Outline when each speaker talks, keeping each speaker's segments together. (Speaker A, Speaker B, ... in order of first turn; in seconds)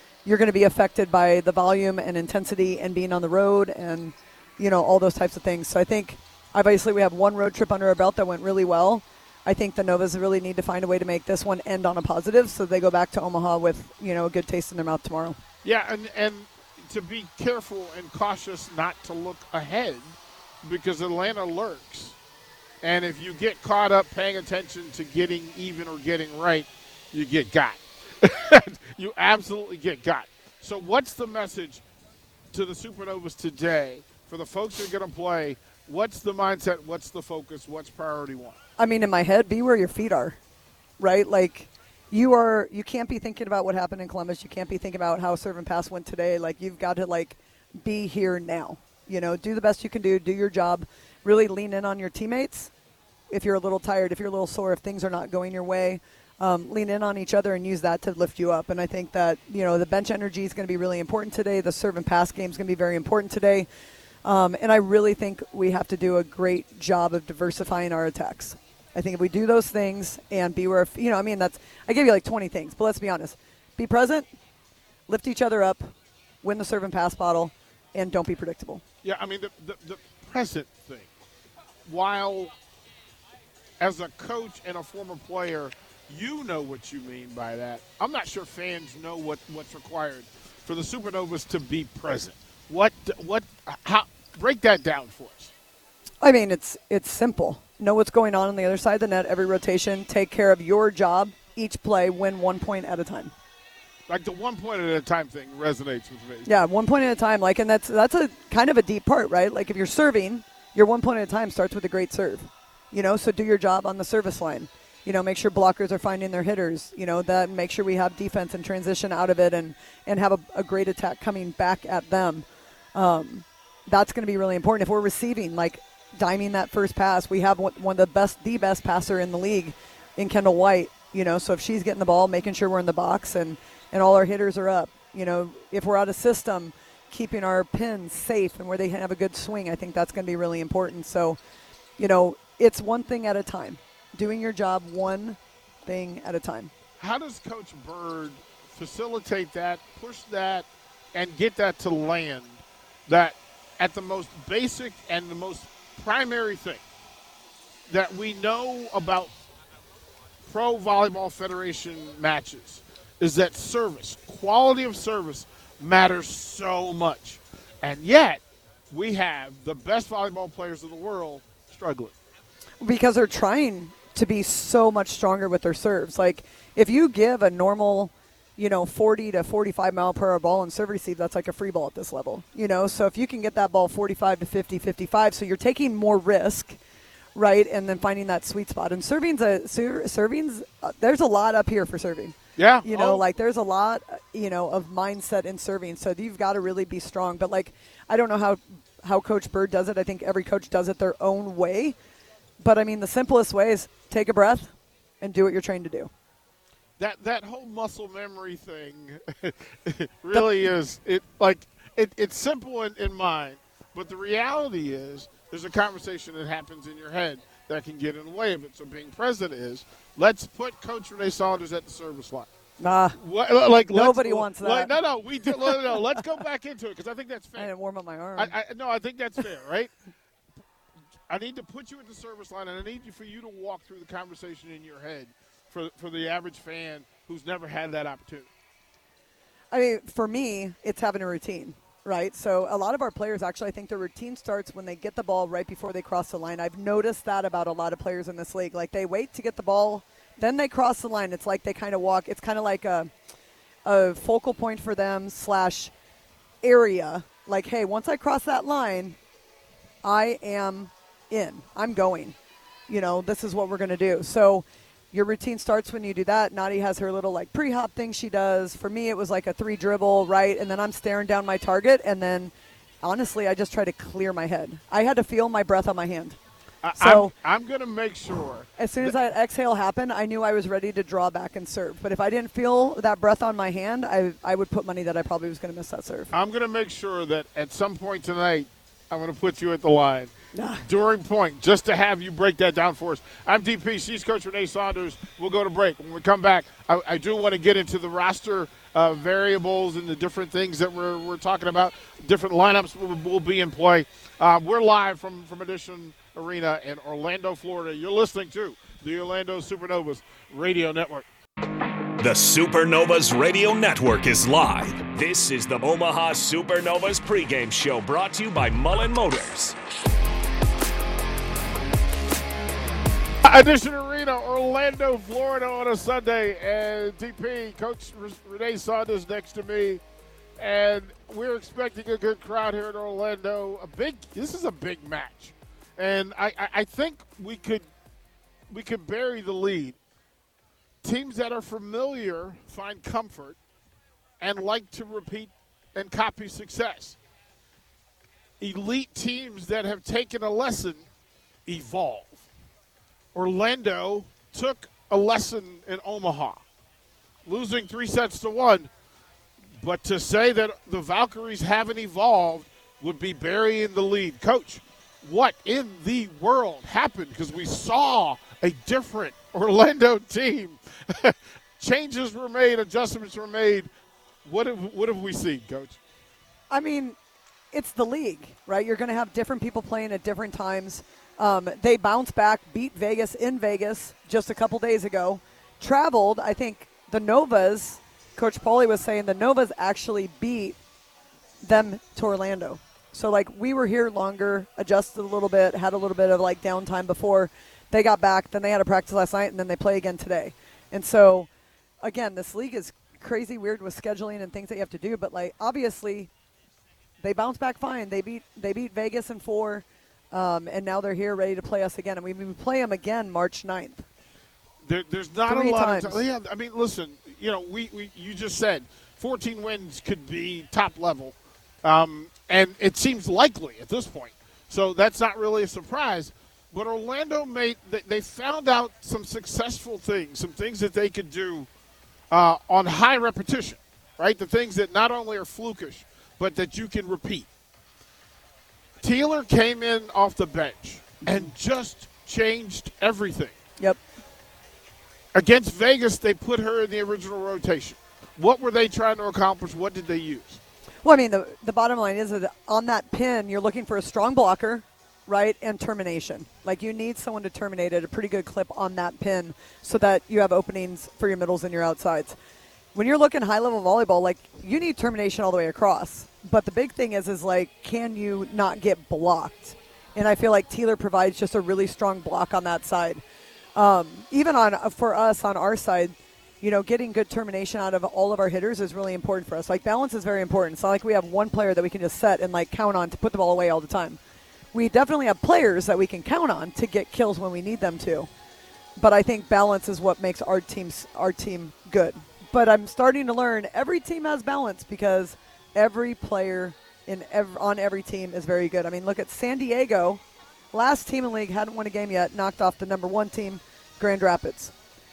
Speaker A: 0.2-15.4, 38.8-40.4, 41.0-52.7, 53.3-63.6, 64.2-74.3, 75.1-78.8, 96.2-103.3, 106.5-141.4, 142.0-146.7, 172.8-186.8, 187.3-201.9, 202.6-206.1, 222.8-223.2, 223.9-224.9, 225.5-226.2, 227.6-228.5, 239.7-253.1, 253.8-255.9, 256.6-259.2, 260.0-262.4, 262.9-272.5, 273.0-276.4, 276.9-277.3, 278.8-286.3, 290.5-290.8, 376.7-377.2, 377.7-390.8, 391.6-401.5, 402.0-406.3, 407.2-414.1, 415.5-416.2, 451.0-462.4, 462.9-473.2, 473.8-484.2, 484.7-488.3, 489.0-500.2, 500.7-504.7
Speaker B: 15.6-22.1, 22.8-31.8, 32.5-38.6, 79.0-81.1, 81.8-82.5, 83.8-95.5, 104.1-106.5, 147.0-156.8, 157.9-159.3, 160.4-172.1, 192.6-193.2, 207.0-222.5, 223.2-227.7, 228.4-229.9, 231.3-238.5, 276.8-279.2, 286.3-311.3, 323.4-330.0, 330.6-337.9, 338.7-340.0, 341.0-343.6, 344.4-347.2, 348.6-351.0, 351.6-352.5, 353.3-356.6, 357.4-358.9, 359.8-373.9, 374.4-376.0, 414.8-431.7, 432.3-437.5, 439.0-443.6, 445.3-450.5
Speaker C: 312.2-319.8